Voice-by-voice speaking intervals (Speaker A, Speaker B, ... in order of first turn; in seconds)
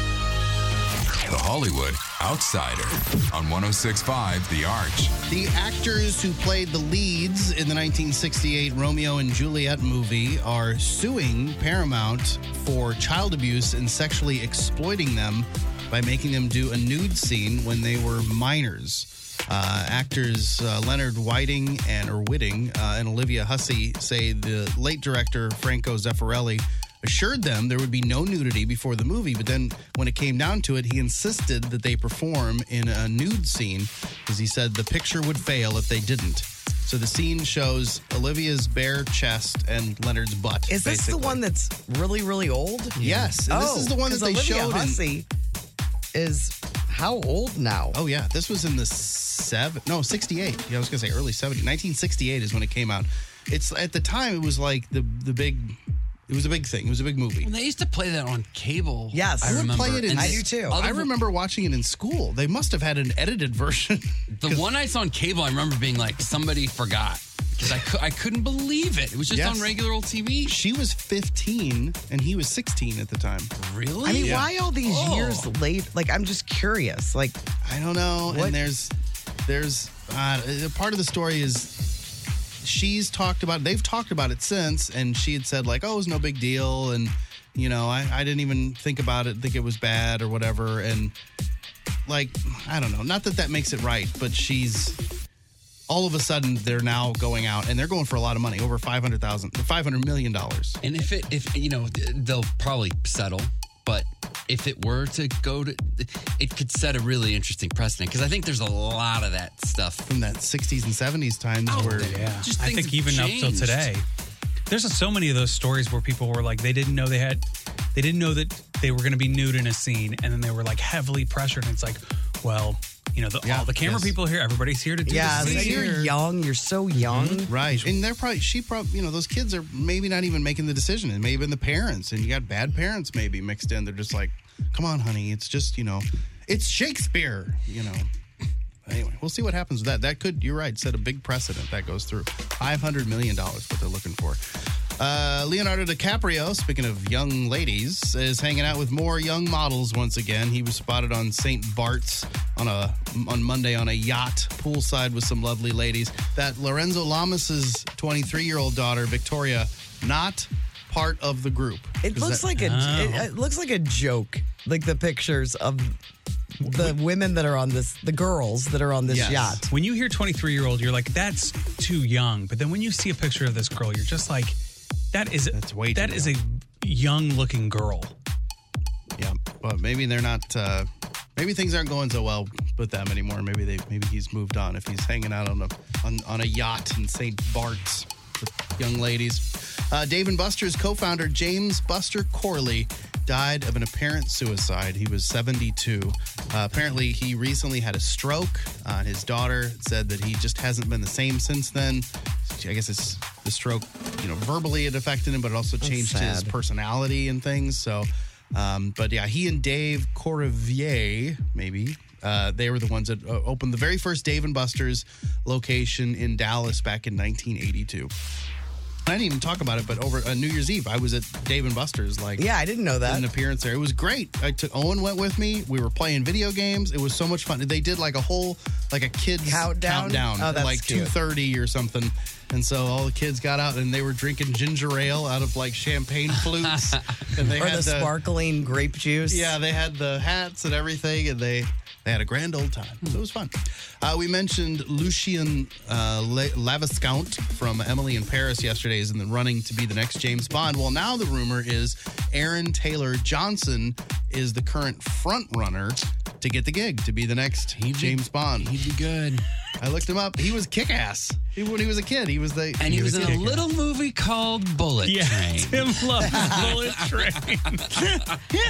Speaker A: 1.3-5.2
Speaker B: 5.3-41.4, 43.0-45.0, 47.9-55.8, 56.3-57.5, 59.5-64.7, 69.3-69.7, 70.5-73.5, 74.2-74.5, 77.6-78.9, 79.5-81.8, 82.6-91.1, 92.1-95.0, 95.9-100.8, 110.1-112.2, 123.4-124.2, 125.1-126.1, 127.2-138.1, 138.9-144.4, 145.0-162.5, 169.1-169.6, 175.5-176.3, 179.2-218.1, 219.1-222.4, 223.1-238.1, 239.3-258.7, 259.8-263.4
Speaker C: 40.7-45.3, 46.1-48.0, 59.1-60.8, 74.0-77.4, 78.3-78.6, 125.1-127.9, 162.0-166.0, 166.6-169.7, 205.8-206.5, 222.4-223.3, 229.4-231.1, 237.6-239.6
Speaker D: 57.4-61.1, 64.4-70.6, 73.6-75.5, 100.8-110.1, 111.7-113.9, 236.3-236.7, 257.8-259.4, 262.8-267.3, 267.9-268.2
Speaker E: 111.8-114.0, 114.7-117.4, 118.0-125.9, 162.6-163.3, 166.7-166.9, 169.7-174.6, 175.1-178.1, 262.8-263.7, 265.1-268.2